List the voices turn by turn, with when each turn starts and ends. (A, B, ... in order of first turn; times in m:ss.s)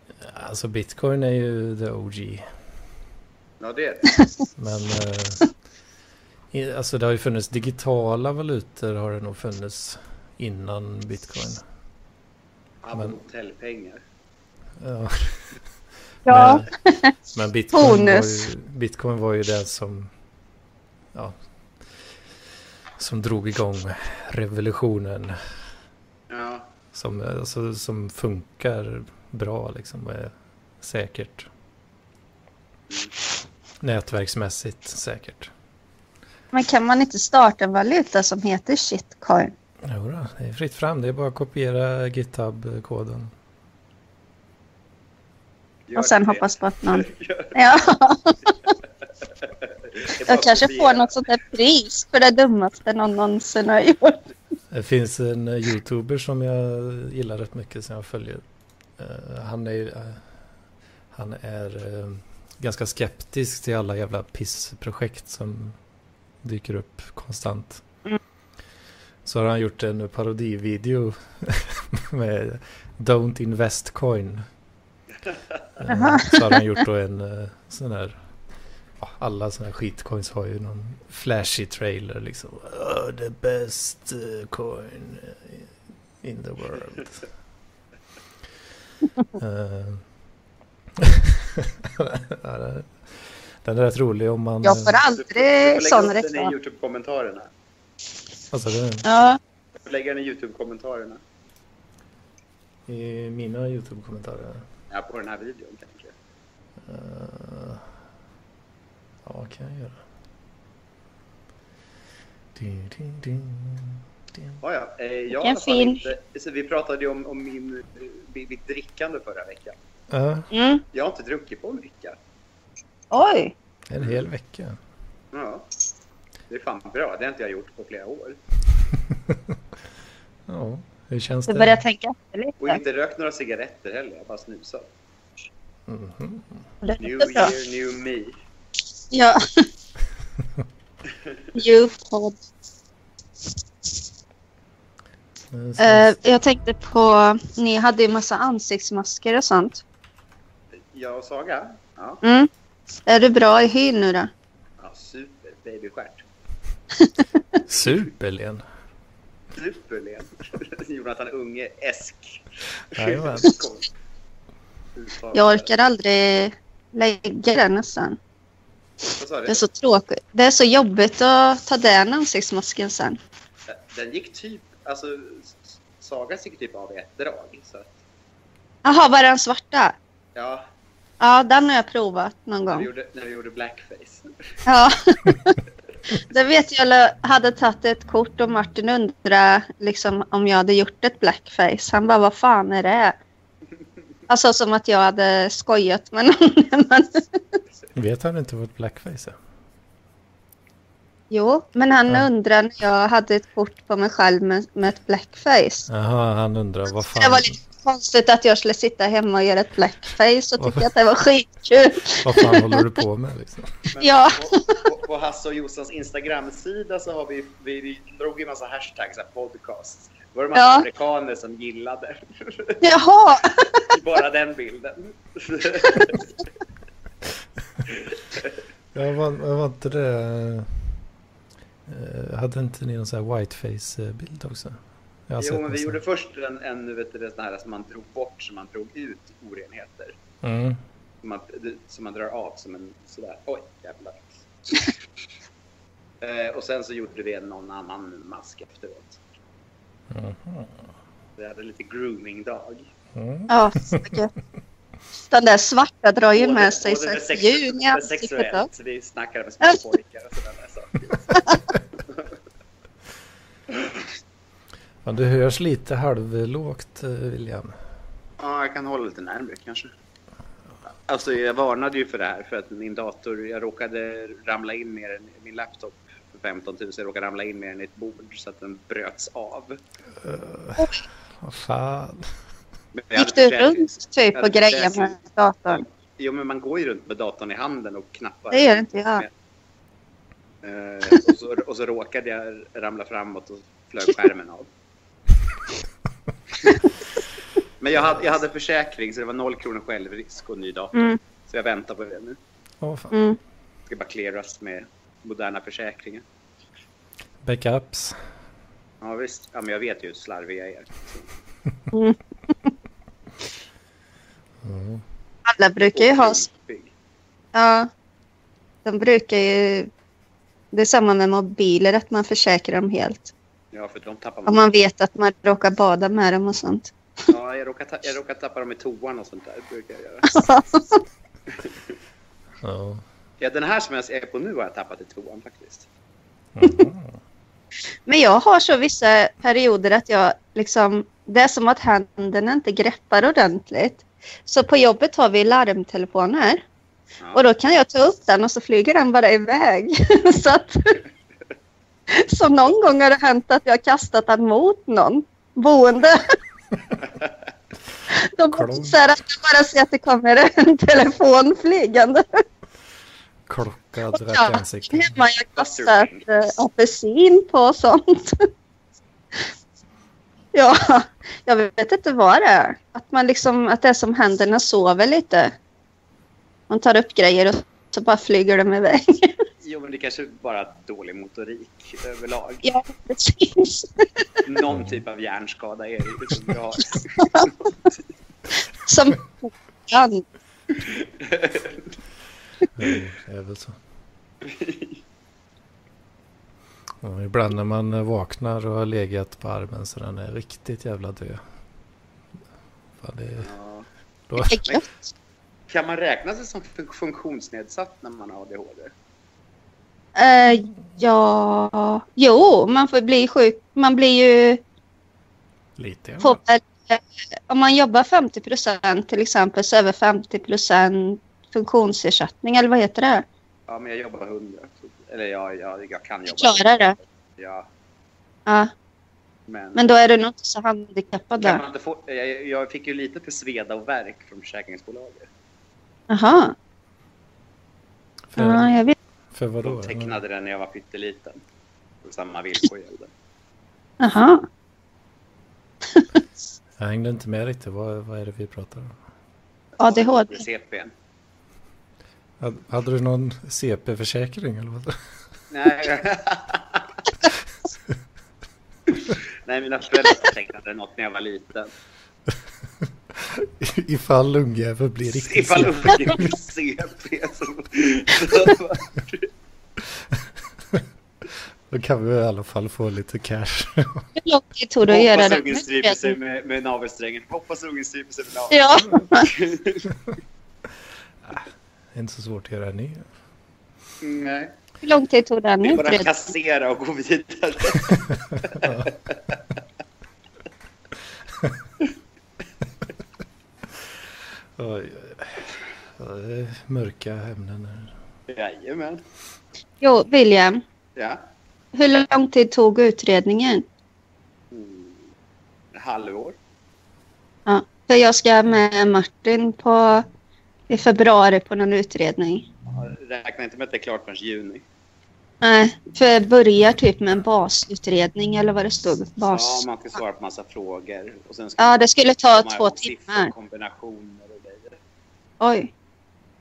0:00.2-0:02.4 A
0:03.6-0:04.2 B
0:04.6-0:05.5 A
0:06.5-0:11.6 A
0:12.8-0:14.0 B
0:14.8-0:15.4 A
0:16.3-0:16.7 A
0:16.3-0:17.1 C
0:17.3-0:20.1 A
0:17.7-0:18.5 C
0:23.0-0:25.4 A
0:26.3-0:26.7 B
0:26.9-0:31.5 A
0:33.8-0:35.5 A
0:36.5-0:39.5 C
0:39.9-0:43.3 A
0:45.9-0:47.6 B
0:46.0-0:48.7 C
0:49.4-0:51.2 B
0:50.3-0:54.2 C
0:54.7-0:58.4 A
0:59.0-1:00.2 A
1:01.1-1:05.8 A
1:06.4-1:07.8 A
1:09.2-1:14.5 A
1:15.8-1:18.2 A
1:15.9-1:16.6 C
1:19.0-1:25.7 A
1:26.2-1:27.2 A
1:29.4-1:30.0 A
1:31.0-1:35.0 A
1:34.6-1:36.5 C
1:35.2-1:37.5 B
1:38.5-1:39.1 A
1:39.0-1:39.4 C
1:39.8-1:41.2 B
1:42.9-1:44.6 A
1:44.9-1:46.1 B
1:46.9-1:47.8 A
1:49.2-1:50.0 A
1:52.6-1:54.6 A
1:54.6-1:59.8 B
1:55.3-1:56.0 C
2:00.1-2:00.5 A
2:00.5-2:00.8 C
2:00.9-2:02.2 B
2:03.1-2:03.5 C
2:03.9-2:04.8 A
2:05.3-2:05.7 B
2:06.5-2:08.4 B
2:10.5-2:11.8 A
2:11.5-2:12.8 C
2:12.6-2:14.9 B
2:15.9-2:16.6 A
2:16.8-2:17.5 C
2:17.0-2:18.4 B
2:19.1-2:19.7 C
2:21.5-2:22.4 C
2:25.5-2:26.1 A
2:25.8-2:29.8 C
2:30.9-2:32.2 B
2:32.2-2:32.5 C
2:33.1-2:34.3 C
2:34.8-2:36.2 B
2:37.0-2:37.6 C
2:37.7-2:38.6 A
2:39.5-2:42.4 B
2:42.9-2:43.6 A
2:43.0-2:43.9 B
2:45.0-2:45.7 B
2:45.3-2:48.2 C
2:49.2-2:49.6 B
2:49.5-2:53.2 C
2:53.7-2:58.0 B
2:58.8-3:00.0 C
3:00.4-3:00.7 B
3:01.2-3:02.9 C
3:02.7-3:04.3 B
3:04.7-3:05.6 C
3:06.2-3:13.2 C
3:14.3-3:17.6 C
3:17.9-3:19.4 A
3:21.3-3:25.9 C
3:25.9-3:27.6 A
3:27.0-3:32.8 C
3:30.6-3:30.9 A
3:32.2-3:33.8 A
3:34.0-3:42.8 B
3:34.0-3:34.8 C
3:40.6-3:40.9 C
3:42.8-3:43.9 C
3:43.8-3:46.4 B
3:47.9-3:48.6 B
3:49.0-3:50.7 A
3:51.9-3:56.0 A
3:55.4-4:00.2 B
4:00.4-4:00.8 A
4:01.2-4:04.9 B
4:06.2-4:09.2 B
4:10.1-4:10.7 A
4:11.4-4:12.9 B
4:13.2-4:14.2 A
4:13.5-4:14.3 C
4:15.2-4:18.7 C
4:16.4-4:21.4 B
4:21.3-4:21.6 C
4:23.7-4:24.0 B
4:25.0-4:27.7 A
4:28.4-4:29.9 B
4:31.1-4:39.8 B
4:40.2-4:42.3 A
4:42.9-4:45.2 B
4:43.2-4:45.8 C
4:45.7-4:49.3 B
4:48.5-4:49.2 C
4:50.6-4:54.7 B
4:57.8-5:02.4 B
5:02.8-5:03.2 A
5:03.1-5:03.4 C
5:03.9-5:06.2 B
5:07.4-5:08.2 A
5:09.0-5:11.3 B
5:11.9-5:12.7 C
5:14.6-5:15.0 A
5:15.4-5:16.5 C
5:15.9-5:16.9 B
5:17.5-5:17.9 C
5:18.8-5:19.9 C
5:20.7-5:23.3 C
5:23.7-5:24.8 B
5:24.5-5:26.9 C
5:27.3-5:30.3 B
5:30.3-5:31.0 C
5:32.6-5:33.0 A
5:33.4-5:35.9 B
5:36.6-5:37.2 A
5:38.1-5:46.6 C
5:47.3-5:51.0 C
5:52.1-5:56.2 C
5:58.1-6:02.2 C
5:58.5-5:59.0 A
6:03.5-6:05.2 A
6:04.1-6:08.4 C
6:05.6-6:06.3 B
6:10.5-6:15.5 C
6:16.7-6:19.4 C
6:19.6-6:22.6 B
6:22.6-6:24.4 C
6:24.4-6:27.9 B
6:24.7-6:25.0 A
6:27.2-6:27.5 C
6:28.9-6:30.2 C
6:30.8-6:31.9 B
6:32.8-6:33.8 A
6:34.4-6:35.0 B
6:37.0-6:41.4 A
6:43.0-6:43.5 A
6:43.4-6:43.9 B
6:44.3-6:44.6 A
6:44.4-6:44.8 C
6:45.7-6:48.9 B
6:50.2-6:54.6 C
6:55.8-6:56.4 A
6:56.2-7:03.3 C
7:03.7-7:07.7 B
7:06.3-7:07.0 C
7:09.5-7:09.8 B
7:09.8-7:11.6 C
7:11.4-7:15.3 B
7:16.1-7:16.6 C
7:18.3-7:18.7 A
7:18.4-7:19.0 C
7:19.3-7:20.2 A
7:19.6-7:21.4 B
7:22.0-7:23.1 B
7:24.0-7:24.4 C
7:25.9-7:26.2 C
7:26.8-7:29.0 A
7:29.8-7:30.9 B
7:29.8-7:30.4 C
7:32.4-7:35.0 A
7:35.5-7:36.9 B
7:39.1-7:41.7 B
7:43.2-7:46.3 A
7:45.0-7:49.3 B
7:51.7-7:54.1 A
7:54.2-7:56.2 C
7:54.9-7:59.9 B
7:58.5-7:59.3 C
8:01.3-8:03.1 A
8:04.0-8:04.5 B
8:04.8-8:06.1 C
8:05.6-8:09.1 B
8:08.4-8:08.9 A
8:14.6-8:15.5 A
8:16.0-8:17.9 A
8:18.3-8:19.0 B
8:19.8-8:20.6 C
8:21.0-8:21.2 B
8:21.7-8:23.6 C
8:24.5-8:25.0 B
8:25.8-8:26.4 B
8:27.5-8:30.1 C
8:30.7-8:32.5 C
8:32.7-8:34.6 B
8:35.4-8:39.6 C
8:39.3-8:44.8 B
8:41.6-8:43.3 C
8:45.4-8:45.7 C